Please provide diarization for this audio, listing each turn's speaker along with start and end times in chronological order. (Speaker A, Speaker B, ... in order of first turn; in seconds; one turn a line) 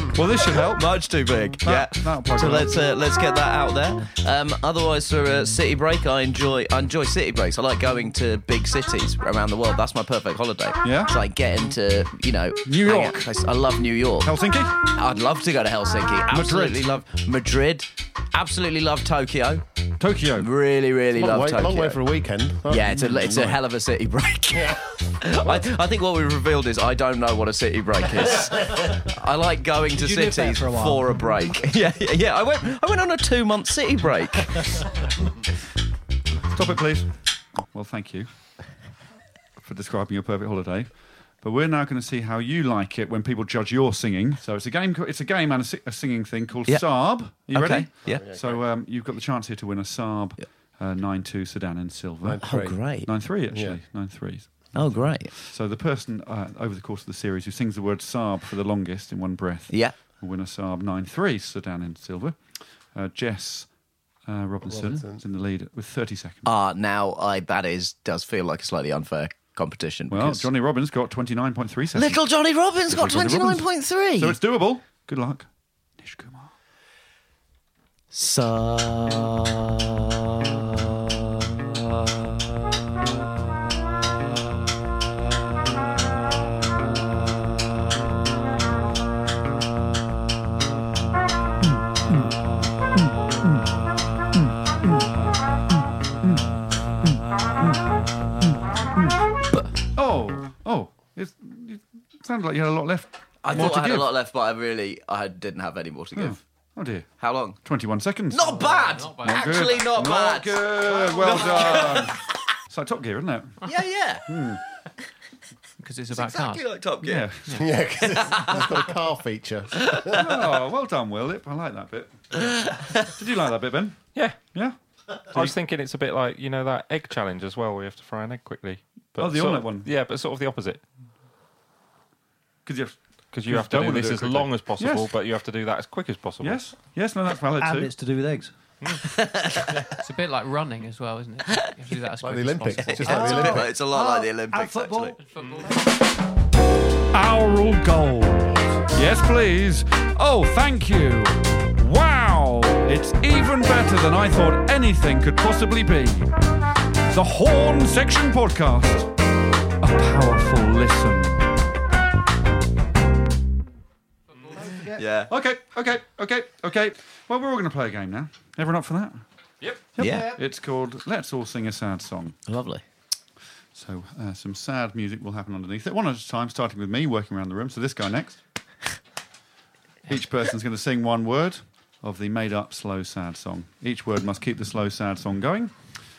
Speaker A: 0.1-0.9
Speaker B: 0.6-14.3
Speaker A: 1.6-2.8
Speaker A: 10.8-11.2
Speaker A: 12.7-13.3
Speaker A: 14.2-14.8
Speaker B: 14.9-19.6
Speaker A: 16.3-17.0
Speaker A: 20.0-20.5
Speaker B: 20.4-22.0
Speaker C: 21.1-23.6
Speaker B: 22.7-34.9
Speaker C: 24.5-24.8
Speaker D: 29.9-31.6
Speaker A: 36.5-37.1
Speaker A: 37.6-38.3
Speaker A: 39.6-52.5
Speaker B: 46.7-48.2
Speaker C: 48.0-48.6
Speaker C: 52.2-52.8
Speaker B: 52.4-53.1
Speaker A: 53.0-62.4
Speaker C: 53.5-53.8
Speaker B: 54.7-55.3
Speaker B: 59.7-60.0
Speaker A: 62.9-66.5
Speaker C: 64.7-65.2
Speaker B: 66.5-70.5
Speaker A: 70.1-72.2
Speaker B: 71.9-74.4
Speaker A: 72.9-76.5
Speaker B: 78.1-80.0
Speaker A: 91.6-92.3
Speaker A: 92.9-93.7
Speaker A: 94.3-95.1
Speaker A: 95.7-99.2
Speaker A: 100.0-104.1
Speaker B: 103.4-106.4
Speaker A: 106.2-112.2
Speaker B: 107.2-107.6
Speaker B: 108.3-112.2
Speaker E: 108.6-109.8
Speaker A: 112.7-113.6
Speaker B: 113.6-114.3
Speaker A: 114.3-114.6
Speaker E: 115.8-116.7
Speaker B: 116.1-117.3
Speaker A: 117.0-117.6
Speaker C: 117.5-120.2
Speaker B: 118.0-118.9
Speaker B: 119.8-120.2
Speaker A: 120.1-124.8
Speaker B: 122.4-123.0
Speaker F: 124.1-124.5
Speaker F: 125.3-130.9
Speaker A: 129.2-129.9
Speaker A: 132.7-135.1
Speaker F: 133.3-136.7
Speaker A: 136.4-138.0
Speaker D: 137.6-138.5
Speaker B: 139.1-139.8
Speaker E: 140.0-143.4
Speaker C: 142.2-143.7
Speaker B: 142.8-145.2
Speaker D: 143.0-145.2
Speaker E: 145.3-145.8
Speaker A: 147.1-156.3
Speaker A: 157.1-159.1
Speaker A: 159.8-161.4
Speaker D: 164.5-165.1
Speaker B: 164.9-165.3
Speaker A: 165.3-169.2
Speaker F: 169.6-169.9
Speaker A: 169.9-172.4
Speaker B: 170.0-170.3
Speaker D: 170.0-170.4
Speaker B: 172.5-172.8
Speaker A: 173.7-178.4
Speaker A: 180.1-185.7